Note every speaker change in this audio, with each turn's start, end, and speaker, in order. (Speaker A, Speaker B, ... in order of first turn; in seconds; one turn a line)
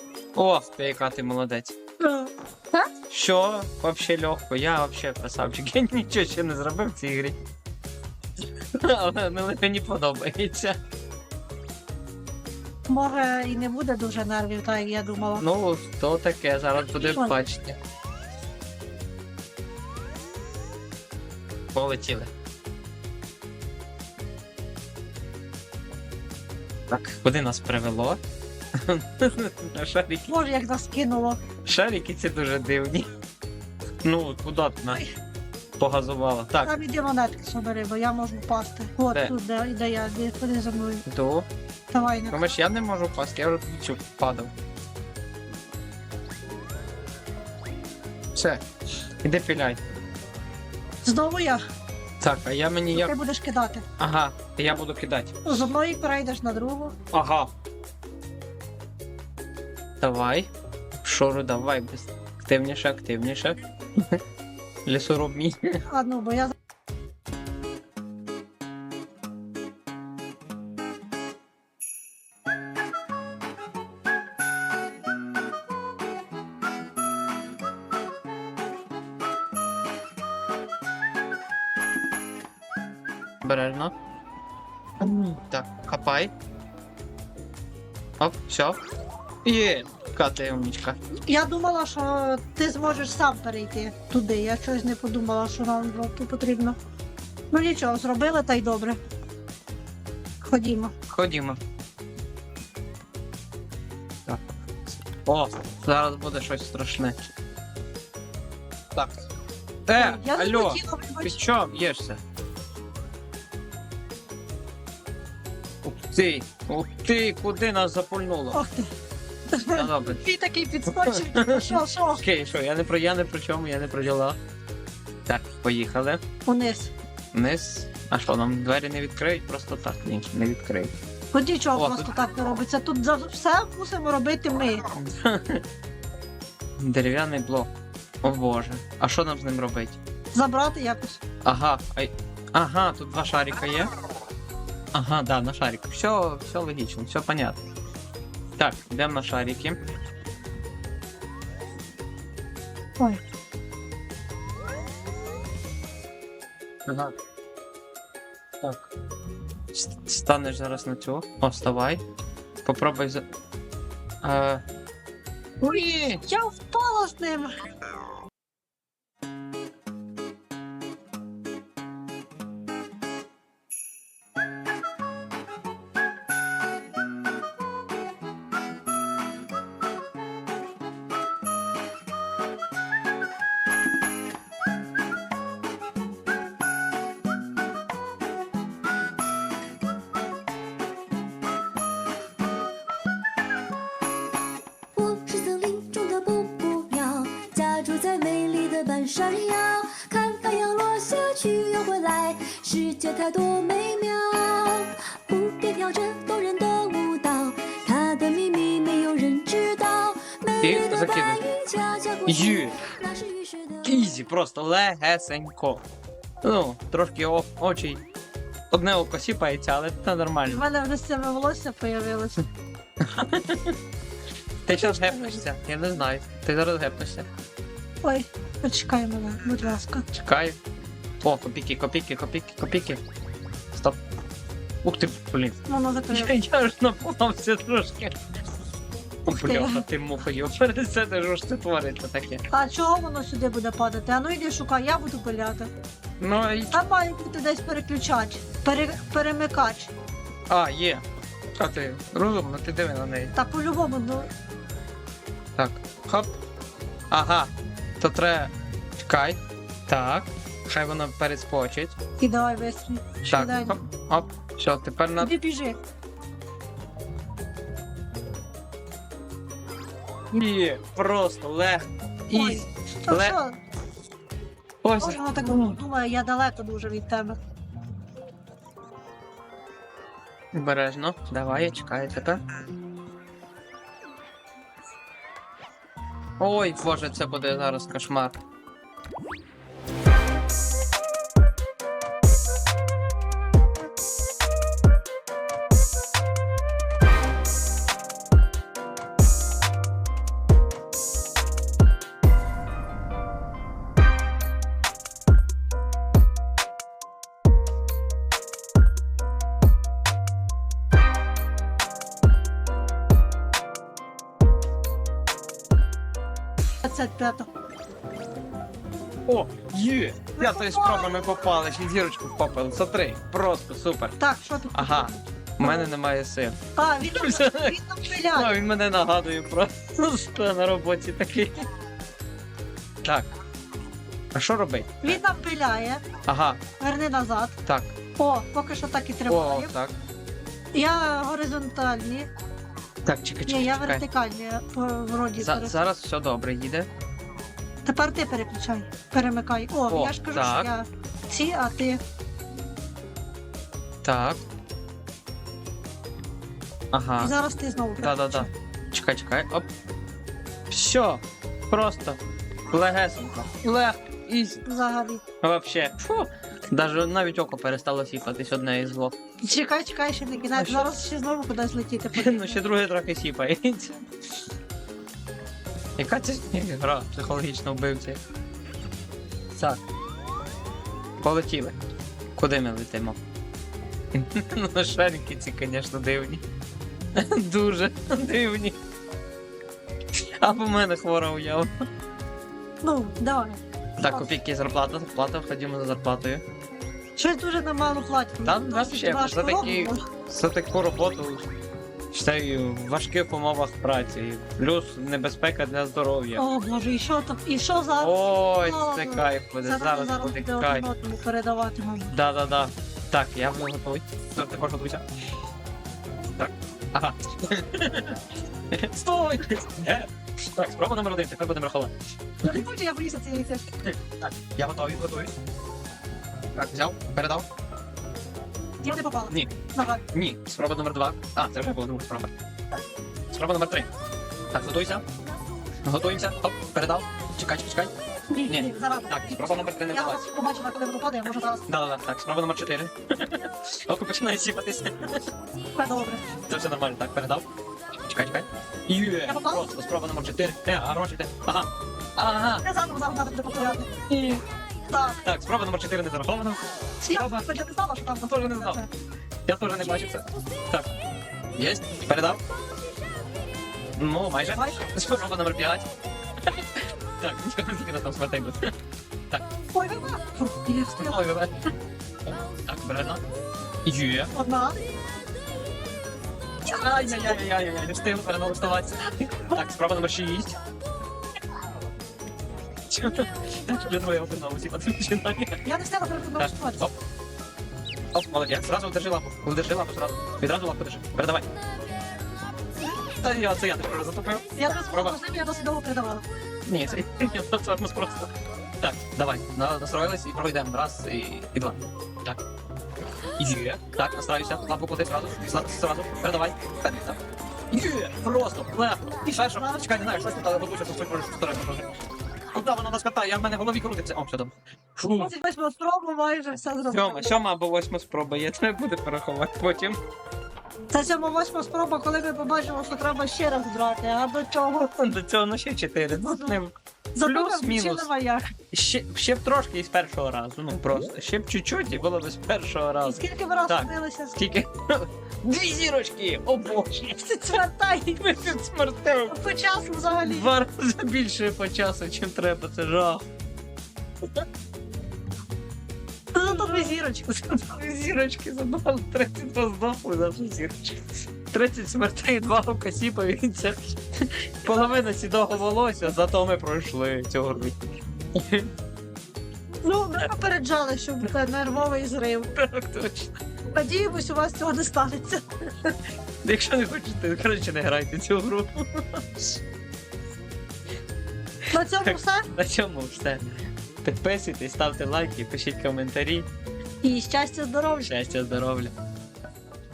Speaker A: 0.3-1.8
Speaker B: 2.0-2.8
Speaker A: 3.1-7.4
Speaker A: 8.8-10.8
Speaker B: 12.9-15.4
Speaker A: 15.4-17.8
Speaker B: 17.0-17.4
Speaker A: 21.7-22.3
Speaker A: 26.9-28.2
Speaker A: 28.8-30.4
Speaker B: 30.3-31.4
Speaker A: 31.6-33.1
Speaker A: 34.0-35.0
Speaker A: 35.8-36.7
Speaker B: 36.6-41.0
Speaker A: 41.1-41.5
Speaker B: 41.9-42.4
Speaker A: 42.3-44.5
Speaker A: 48.3-48.6
Speaker A: 49.2-49.8
Speaker B: 51.0-51.6
Speaker A: 52.2-53.1
Speaker B: 52.9-53.8
Speaker A: 54.0-55.3
Speaker B: 55.4-56.9
Speaker A: 57.1-57.5
Speaker A: 60.0-60.5
Speaker A: 61.0-64.2
Speaker A: 64.8-65.8
Speaker B: 65.9-66.5
Speaker A: 83.4-83.9
Speaker A: 85.0-86.3
Speaker A: 88.2-88.8
Speaker A: 89.4-91.0
Speaker B: 91.3-96.8
Speaker B: 97.5-99.0
Speaker B: 100.4-100.9
Speaker A: 101.1-101.6
Speaker A: 105.1-107.2
Speaker A: 108.9-109.2
Speaker A: 109.8-112.2
Speaker B: 109.9-111.4
Speaker A: 115.8-118.6
Speaker B: 118.5-118.9
Speaker B: 119.5-122.2
Speaker A: 119.7-120.2
Speaker A: 121.0-124.4
Speaker A: 125.2-126.2
Speaker B: 126.4-126.9
Speaker A: 127.3-130.9
Speaker B: 131.3-134.8
Speaker A: 131.7-132.1
Speaker A: 134.9-135.6
Speaker A: 136.8-137.7
Speaker A: 138.2-140.0
Speaker B: 140.3-141.2
Speaker A: 141.4-143.9
Speaker A: 144.9-147.6
Speaker A: 148.6-149.8
Speaker A: 156.8-157.1
Speaker A: 158.6-158.8
Speaker A: 159.7-162.0
Speaker A: 162.6-163.2
Speaker A: 164.2-164.6
Speaker A: 165.6-166.2
Speaker B: 166.2-167.5
Speaker C: 194.9-214.0
Speaker A: 210.6-211.4
Speaker A: 212.2-212.8
Speaker A: 213.8-215.8
Speaker A: 216.4-218.0
Speaker A: 218.7-220.6
Speaker B: 220.5-222.4
Speaker A: 223.0-223.8
Speaker A: 224.6-227.3
Speaker B: 224.7-225.4
Speaker B: 228.0-230.0
Speaker A: 230.1-230.6
Speaker A: 231.2-233.0
Speaker A: 233.7-234.0
Speaker A: 234.8-235.6
Speaker B: 235.7-236.3
Speaker A: 236.1-238.2
Speaker A: 239.2-242.4
Speaker B: 239.3-239.8
Speaker B: 242.5-245.7
Speaker A: 246.2-246.8
Speaker B: 246.7-249.9
Speaker A: 250.5-251.0
Speaker A: 251.6-253.3
Speaker B: 253.3-254.3
Speaker A: 255.6-256.3
Speaker A: 257.1-262.0
Speaker B: 262.2-263.8
Speaker A: 263.3-265.3
Speaker B: 265.2-265.8
Speaker A: 270.3-273.4
Speaker B: 272.3-273.6
Speaker A: 274.8-275.8
Speaker B: 275.0-277.4
Speaker A: 280.5-282.4
Speaker A: 286.4-288.4
Speaker B: 316.8-317.5
Speaker A: 319.2-324.2
Speaker B: 320.4-321.5
Speaker B: 324.2-325.9
Speaker A: 324.7-326.6
Speaker B: 326.8-328.6
Speaker A: 327.1-327.7
Speaker A: 328.3-331.6
Speaker A: 333.0-333.3
Speaker A: 334.3-335.2
Speaker B: 335.0-336.0
Speaker A: 336.2-336.6
Speaker B: 336.8-337.6
Speaker A: 337.6-337.9
Speaker B: 338.1-339.7
Speaker A: 339.3-339.9
Speaker B: 340.7-342.3
Speaker A: 343.0-344.0
Speaker B: 343.5-345.8
Speaker A: 345.4-346.9
Speaker B: 347.8-352.0
Speaker A: 349.9-350.7
Speaker A: 354.0-354.4
Speaker A: 356.9-357.3
Speaker B: 357.2-358.5
Speaker A: 358.0-359.7
Speaker A: 360.7-364.6
Speaker B: 364.6-365.2
Speaker A: 365.4-369.1
Speaker B: 369.4-372.6
Speaker A: 370.6-371.0
Speaker A: 372.1-374.0
Speaker A: 376.0-378.2
Speaker A: 379.5-379.8
Speaker A: 381.2-381.8
Speaker A: 382.4-383.2
Speaker A: 384.1-386.4
Speaker A: 387.1-388.8
Speaker A: 390.4-391.7
Speaker B: 392.8-393.6
Speaker A: 394.0-396.4
Speaker B: 397.2-400.0
Speaker A: 398.4-401.4
Speaker A: 402.1-406.4
Speaker B: 406.4-412.1
Speaker A: 408.0-410.9
Speaker A: 412.1-415.0
Speaker A: 416.4-421.9
Speaker B: 422.4-423.6
Speaker A: 423.8-425.3
Speaker A: 426.5-427.5
Speaker B: 428.8-430.0
Speaker A: 430.1-432.3
Speaker A: 433.3-433.9
Speaker A: 434.5-435.0
Speaker A: 435.8-437.9
Speaker B: 438.3-441.6
Speaker A: 438.4-440.2
Speaker A: 441.7-445.3
Speaker B: 445.8-446.3
Speaker A: 446.5-452.6
Speaker B: 449.2-449.7
Speaker B: 452.6-453.9
Speaker A: 454.1-454.4
Speaker B: 454.9-455.2
Speaker A: 455.2-457.5
Speaker B: 457.0-458.9
Speaker A: 458.2-458.8
Speaker A: 459.4-460.9
Speaker A: 461.6-462.4
Speaker A: 463.9-465.9
Speaker A: 466.4-468.7
Speaker B: 469.7-471.2
Speaker A: 470.8-471.7
Speaker A: 472.3-473.2
Speaker A: 473.8-474.3
Speaker B: 474.3-474.9
Speaker A: 476.6-480.6
Speaker A: 482.9-485.6
Speaker B: 485.6-486.9
Speaker A: 486.4-486.9
Speaker A: 488.1-491.4
Speaker A: 492.9-495.2
Speaker B: 494.5-496.2
Speaker A: 496.6-502.4
Speaker A: 503.4-507.2
Speaker A: 507.7-511.9
Speaker B: 509.3-510.1
Speaker A: 512.5-515.3
Speaker B: 515.1-517.4
Speaker A: 516.9-520.0
Speaker B: 520.9-524.9
Speaker A: 524.9-528.1
Speaker B: 526.2-526.6
Speaker B: 527.1-528.5
Speaker A: 528.7-537.4
Speaker B: 533.0-534.3
Speaker B: 537.2-538.3
Speaker A: 538.2-539.4
Speaker B: 539.3-540.5
Speaker A: 540.2-543.2
Speaker B: 546.3-547.3
Speaker A: 547.2-554.0
Speaker A: 554.6-557.8
Speaker A: 558.3-558.7
Speaker B: 559.8-562.5
Speaker A: 562.5-563.3
Speaker B: 563.7-565.4
Speaker A: 565.8-569.5
Speaker B: 571.7-572.5
Speaker A: 572.0-573.4
Speaker A: 574.0-576.5
Speaker B: 577.0-578.1
Speaker A: 578.0-578.9